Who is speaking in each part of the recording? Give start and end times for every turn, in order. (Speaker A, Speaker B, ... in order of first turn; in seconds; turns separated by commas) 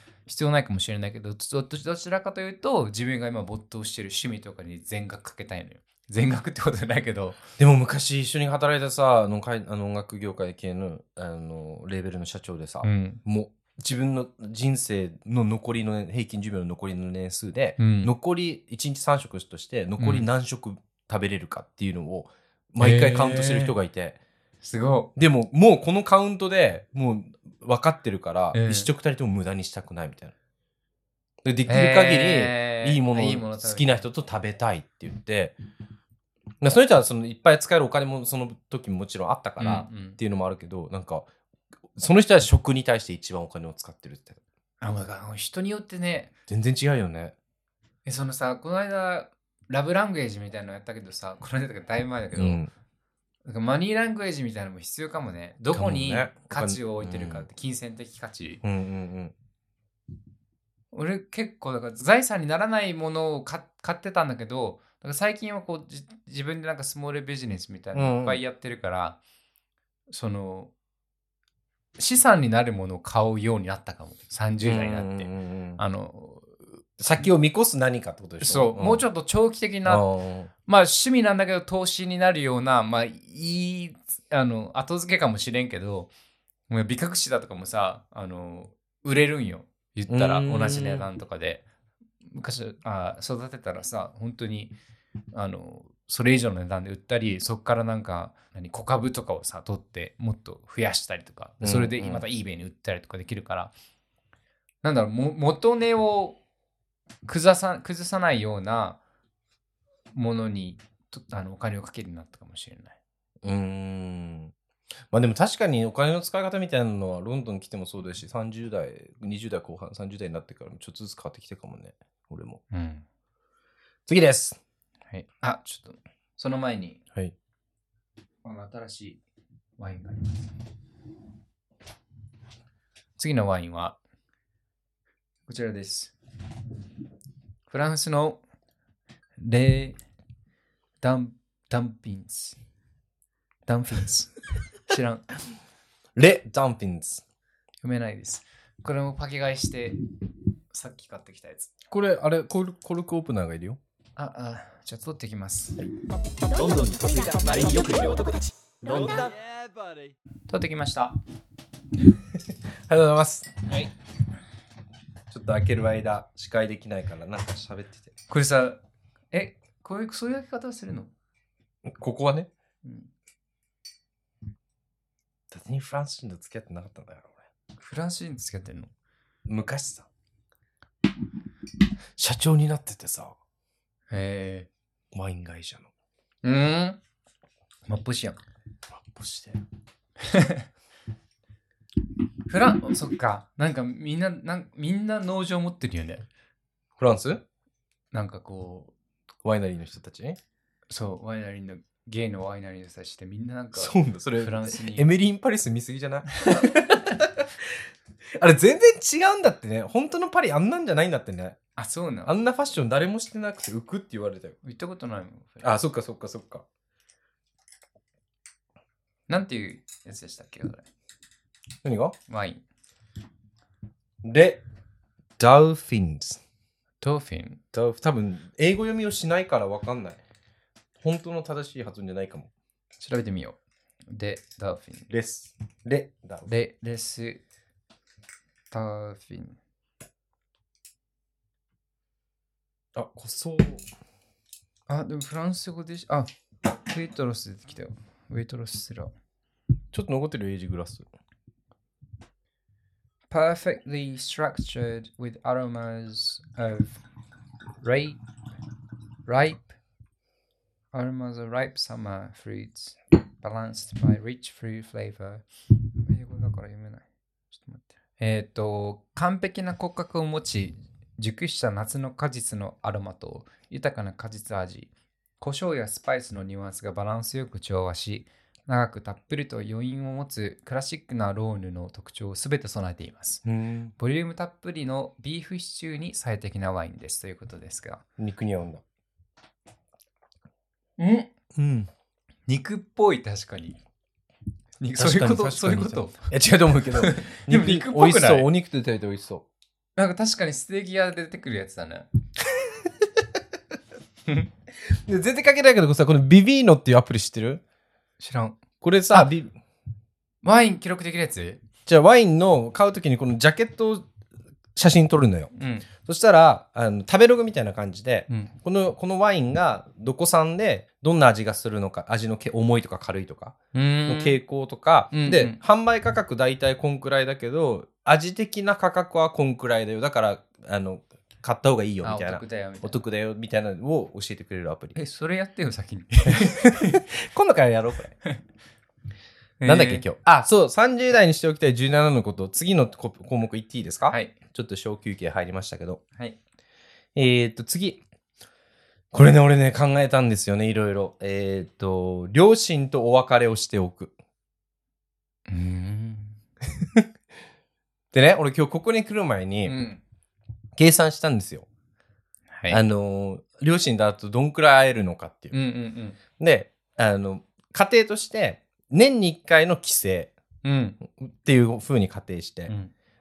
Speaker A: 0.2-7.4, Speaker B: 7.6-24.2, Speaker A: 12.8-13.2, Speaker A: 17.8-18.1, Speaker A: 20.0-20.2, Speaker A: 22.8-23.7, Speaker A: 24.6-25.1, Speaker B: 25.1-30.3, Speaker A: 28.5-28.9, Speaker B: 31.4-35.5, Speaker A: 31.7-34.0, Speaker B: 36.6-41.3, Speaker A: 39.6-40.2, Speaker B: 41.9-44.4, Speaker A: 44.8-46.3, Speaker B: 46.5-47.3, Speaker A: 48.0-52.6, Speaker B: 52.3-52.7, Speaker A: 53.4-58.6, Speaker B: 55.7-57.5, Speaker B: 58.6-59.3, Speaker A: 60.9-69.2, Speaker B: 67.9-68.4, Speaker A: 70.1-70.7, Speaker A: 72.0-76.8, Speaker B: 74.6-75.8, Speaker B: 77.0-79.0, Speaker A: 78.4-80.0, Speaker B: 79.8-80.5, Speaker A: 80.7-86.1, Speaker A: 86.7-91.6, Speaker B: 90.1-91.0, Speaker A: 92.2-94.7, Speaker A: 95.3-103.7, Speaker B: 101.6-102.2, Speaker A: 104.8-106.4, Speaker A: 107.2-109.0, Speaker A: 110.1-113.0, Speaker B: 113.4-114.5, Speaker B: 115.1-122.6, Speaker A: 122.7-123.0, Speaker B: 124.1-124.6, Speaker A: 125.1-127.0, Speaker A: 128.4-129.2, Speaker A: 129.8-130.5, Speaker A: 133.2-134.0, Speaker A: 135.5-136.1, Speaker A: 137.7-138.4, Speaker A: 139.4-140.0, Speaker A: 141.0-142.6, Speaker A: 143.7-145.3, Speaker B: 146.2-147.2, Speaker A: 147.8-150.0, Speaker A: 150.7-151.7, Speaker B: 151.9-153.8, Speaker A: 154.2-155.8, Speaker C: 156.4-159.4, Speaker A: 160.5-161.2, Speaker B: 162.9-163.5, Speaker B: 165.3-168.1, Speaker A: 168.3-168.8, Speaker A: 169.3-171.1, Speaker B: 171.8-172.5, Speaker A: 172.8-173.1, Speaker B: 175.5-177.3, Speaker A: 177.8-178.9, Speaker B: 179.4-180.1, Speaker B: 182.2-183.3, Speaker A: 184.1-184.7, Speaker B: 185.1-185.9, Speaker A: 186.4-187.0, Speaker A: 187.9-188.4, Speaker B: 188.9-189.6, Speaker A: 190.2-190.7, Speaker A: 192.5-196.2, Speaker B: 197.0-197.4, Speaker A: 198.1-198.9, Speaker B: 199.4-200.4, Speaker A: 200.9-205.1, Speaker B: 203.7-207.7, Speaker A: 206.4-206.8, Speaker B: 208.3-211.6, Speaker A: 211.8-212.3, Speaker B: 212.2-214.6, Speaker A: 214.6-215.7, Speaker B: 215.6-216.6, Speaker A: 219.3-220.8, Speaker B: 221.8-222.2, Speaker A: 222.3-222.6, Speaker B: 224.2-224.6, Speaker B: 225.4-226.4, Speaker A: 227.0-227.6, Speaker B: 227.7-230.2, Speaker B: 231.0-232.5, Speaker A: 233.0-233.6, Speaker A: 234.1-235.1, Speaker B: 235.1-236.5, Speaker A: 236.5-237.4, Speaker A: 238.7-239.6, Speaker B: 242.9-243.8, Speaker A: 244.9-249.1, Speaker B: 249.9-251.1, Speaker A: 253.3-257.0, Speaker A: 257.8-258.2, Speaker A: 259.2-259.7, Speaker A: 260.9-265.4, Speaker A: 266.0-283.4, Speaker B: 283.4-283.9, Speaker A: 284.0-288.0, Speaker B: 288.2-288.8, Speaker A: 291.0-291.3, Speaker B: 291.5-291.9, Speaker A: 292.5-293.8, Speaker A: 294.8-296.3, Speaker B: 295.0-299.4, Speaker A: 297.0-298.5, Speaker A: 299.9-302.1, Speaker B: 304.9-307.6, Speaker A: 308.2-308.6, Speaker B: 308.8-309.5, Speaker A: 310.4-311.6, Speaker B: 311.9-314.1, Speaker B: 314.8-323.6, Speaker A: 315.5-315.9, Speaker A: 323.7-324.4, Speaker B: 324.1-334.9, Speaker A: 325.1-325.6, Speaker A: 332.0-333.0, Speaker A: 334.9-337.0, Speaker B: 336.3-338.1, Speaker A: 339.6-340.0, Speaker B: 339.6-346.0, Speaker A: 344.1-344.3, Speaker B: 347.1-348.0, Speaker B: 349.1-354.1, Speaker A: 355.5-356.4, Speaker B: 358.1-359.8, Speaker A: 359.6-360.0, Speaker B: 360.8-361.6, Speaker A: 362.5-362.8, Speaker B: 362.7-365.5, Speaker A: 365.5-366.2, Speaker B: 366.4-370.3, Speaker A: 370.6-371.0, Speaker B: 371.1-372.7, Speaker A: 372.7-372.9